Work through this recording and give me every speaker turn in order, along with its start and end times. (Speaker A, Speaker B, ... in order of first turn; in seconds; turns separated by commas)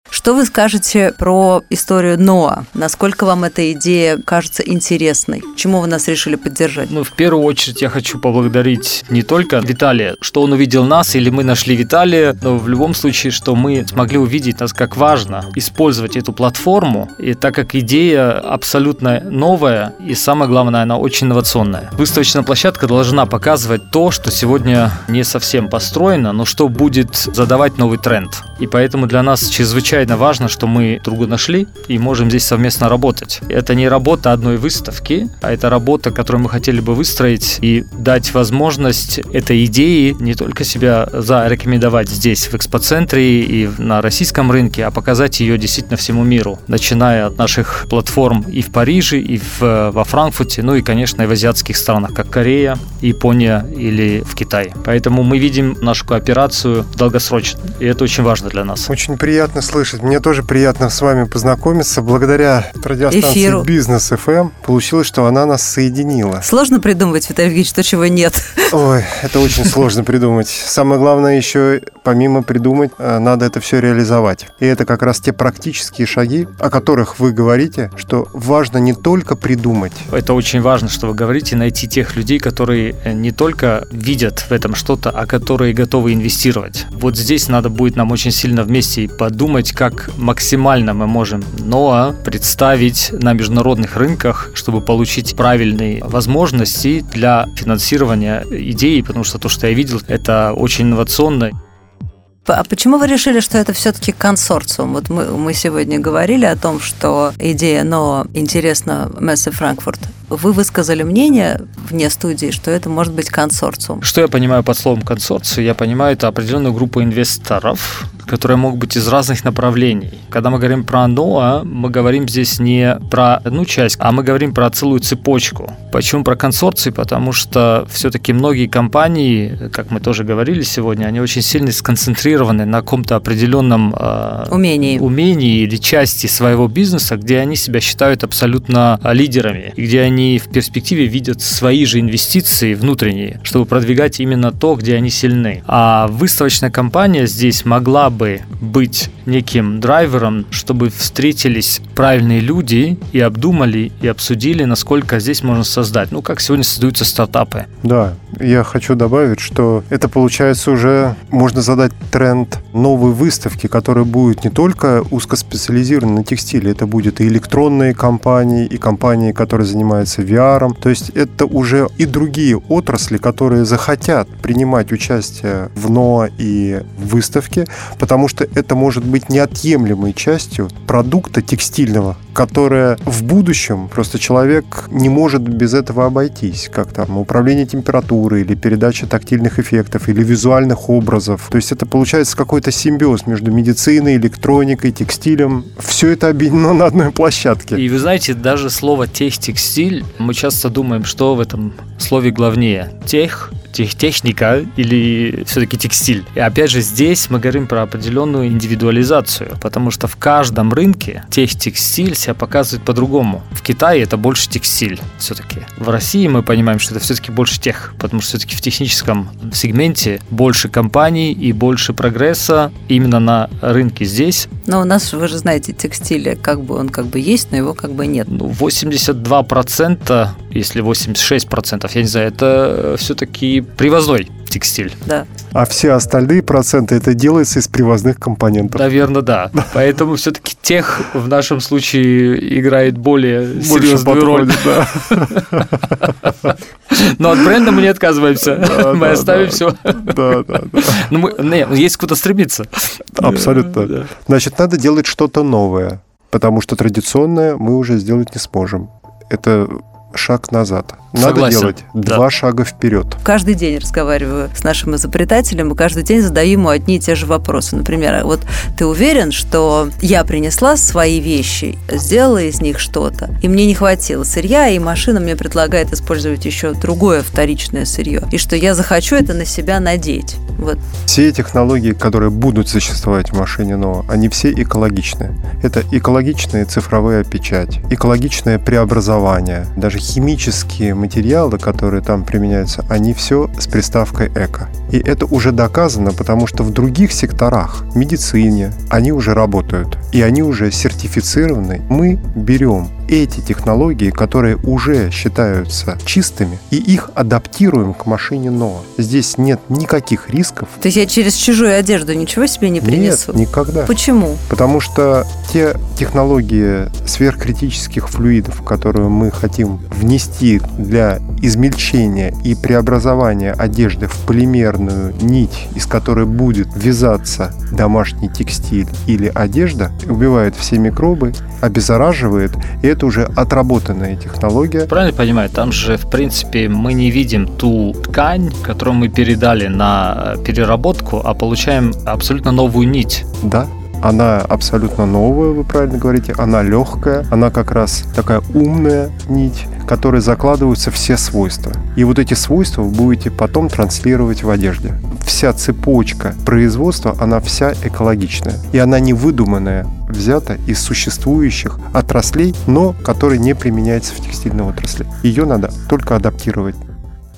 Speaker A: 0.1-6.9, Speaker B: 6.9-58.9, Speaker C: 58.9-66.5, Speaker A: 63.1-63.7, Speaker A: 66.4-68.8, Speaker C: 68.7-80.1, Speaker B: 80.1-101.5, Speaker A: 102.5-114.0, Speaker B: 114.0-157.7, Speaker A: 134.5-135.1, Speaker C: 157.8-197.8, Speaker B: 197.7-224.5, Speaker A: 224.7-228.3, Speaker B: 228.3-235.0, Speaker C: 235.5-238.9, Speaker B: 238.7-254.1, Speaker C: 243.6-245.9, Speaker C: 248.5-251.0, Speaker C: 253.2-263.2, Speaker B: 261.1-262.2, Speaker A: 263.2-280.8, Speaker C: 281.1-310.7, Speaker A: 310.8-314.4, Speaker C: 312.8-313.9, Speaker C: 314.5-334.9, Speaker B: 334.9-343.2, Speaker C: 343.4-366.8